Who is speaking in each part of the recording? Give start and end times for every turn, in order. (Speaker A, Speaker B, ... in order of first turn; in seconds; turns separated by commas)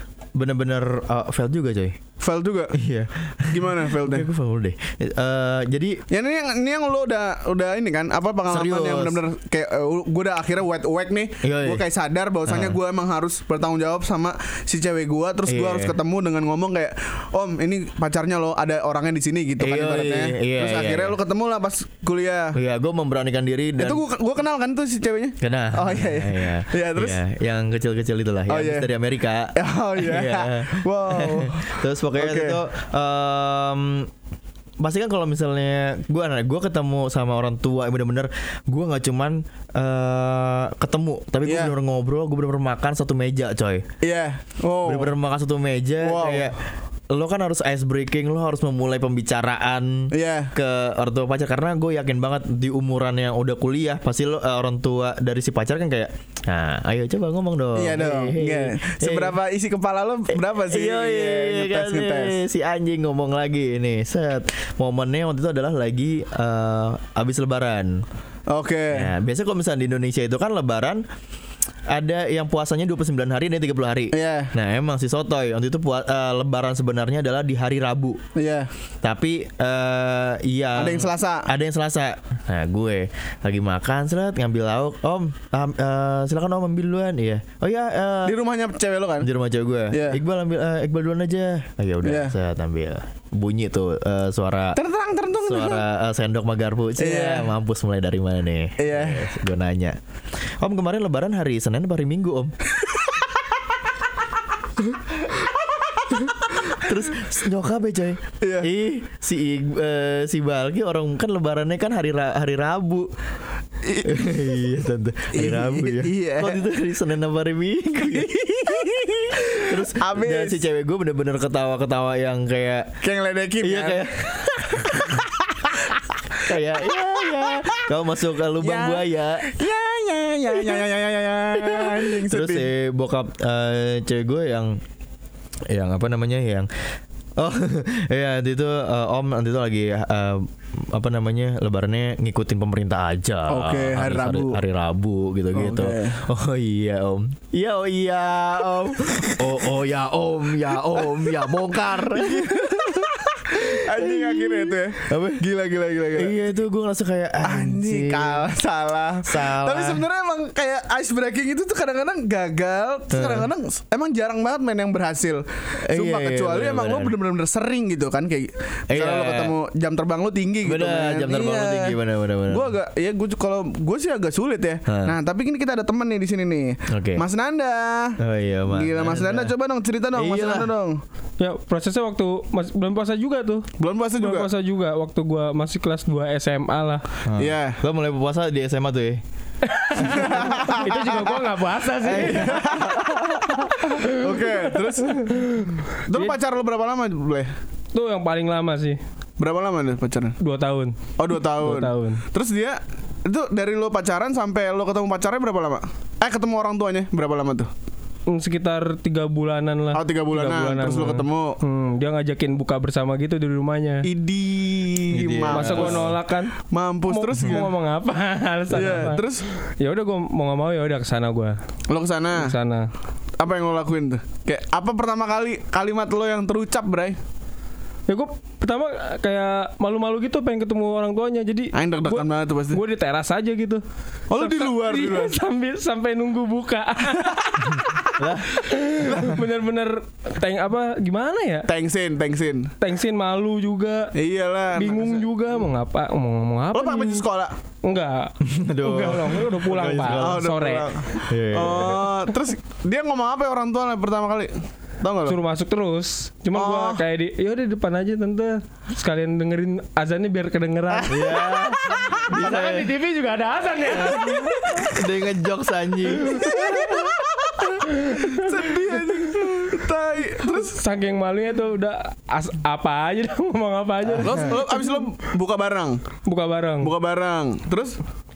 Speaker A: 0.4-2.0, Speaker B: 2.2-2.8, Speaker A: 2.8-6.0, Speaker B: 3.5-4.3, Speaker B: 6.1-22.6, Speaker A: 8.5-9.2, Speaker A: 11.4-11.8, Speaker A: 12.5-12.8, Speaker A: 15.5-15.9, Speaker A: 19.6-21.1, Speaker A: 22.6-24.0, Speaker B: 23.8-27.2, Speaker A: 25.4-34.1, Speaker B: 28.5-28.9, Speaker B: 29.5-32.6, Speaker A: 34.8-43.8, Speaker B: 41.5-41.7, Speaker B: 44.0-45.1, Speaker A: 44.8-46.6, Speaker B: 46.0-46.5, Speaker A: 47.1-59.3, Speaker B: 50.1-50.5, Speaker B: 57.8-62.4, Speaker A: 60.6-68.0, Speaker B: 68.5-69.1, Speaker A: 68.9-71.0, Speaker A: 71.9-78.2, Speaker B: 74.1-74.5, Speaker B: 78.3-78.7, Speaker A: 79.0-88.3, Speaker B: 80.8-81.5, Speaker B: 88.2-89.3, Speaker A: 89.2-94.8, Speaker B: 89.9-90.2, Speaker B: 92.0-92.3, Speaker B: 94.8-95.8, Speaker A: 95.5-100.0, Speaker B: 97.0-97.5, Speaker B: 98.8-99.3, Speaker A: 100.6-102.5, Speaker A: 106.4-113.1, Speaker B: 108.4-108.7, Speaker B: 113.8-114.4, Speaker A: 114.0-118.9, Speaker B: 115.3-116.6, Speaker B: 118.0-120.6, Speaker A: 119.6-122.9, Speaker B: 123.0-124.1, Speaker A: 123.6-125.2, Speaker B: 124.7-126.0, Speaker A: 126.5-129.5, Speaker B: 128.6-132.7, Speaker A: 130.6-130.8, Speaker A: 131.6-134.8, Speaker A: 135.7-136.7, Speaker A: 137.4-155.4, Speaker B: 143.5-144.6, Speaker B: 145.5-146.2, Speaker B: 149.1-149.7, Speaker B: 150.9-156.4, Speaker A: 156.2-158.4, Speaker B: 157.4-172.0, Speaker A: 159.2-160.1, Speaker A: 163.1-163.5, Speaker A: 165.8-167.2, Speaker A: 168.9-169.5, Speaker A: 170.7-172.7, Speaker B: 172.5-178.2, Speaker A: 174.9-175.2, Speaker A: 176.9-177.2, Speaker A: 178.2-179.5, Speaker B: 178.7-181.0, Speaker A: 180.2-180.7, Speaker C: 181.4-183.7, Speaker B: 183.8-184.5, Speaker C: 184.2-187.0, Speaker A: 187.2-189.2, Speaker B: 187.4-187.8, Speaker C: 189.7-194.3, Speaker B: 190.0-191.3, Speaker A: 192.1-193.6, Speaker B: 192.1-195.4, Speaker C: 195.0-196.4, Speaker B: 196.1-197.5, Speaker C: 197.9-199.0, Speaker B: 199.4-200.3, Speaker C: 200.4-201.0, Speaker B: 201.2-207.7, Speaker C: 201.6-202.2, Speaker C: 208.3-214.1, Speaker B: 209.9-211.6, Speaker B: 214.0-216.1, Speaker A: 215.1-216.2, Speaker C: 215.5-216.6, Speaker B: 216.7-217.7, Speaker C: 217.1-219.3, Speaker B: 218.7-219.4, Speaker C: 219.8-221.6, Speaker B: 221.9-222.6, Speaker C: 222.3-222.9, Speaker B: 223.4-227.2, Speaker C: 228.1-241.7, Speaker B: 231.7-232.8, Speaker B: 234.3-235.4, Speaker A: 238.2-238.5, Speaker B: 239.0-239.4, Speaker B: 241.7-242.7, Speaker C: 242.8-244.1, Speaker B: 244.1-245.3, Speaker C: 244.7-247.2, Speaker B: 246.7-247.5, Speaker C: 247.8-250.9, Speaker A: 248.4-250.5, Speaker B: 250.1-255.4, Speaker A: 251.3-252.1, Speaker C: 255.3-261.2, Speaker B: 256.5-257.0, Speaker A: 261.1-262.9, Speaker B: 261.1-262.3, Speaker C: 262.1-264.9, Speaker B: 264.1-264.9, Speaker A: 264.9-266.7, Speaker B: 266.2-270.8, Speaker C: 266.3-267.1, Speaker C: 267.9-268.4, Speaker C: 270.5-275.0, Speaker B: 274.2-276.0, Speaker C: 276.3-276.9, Speaker B: 276.8-278.0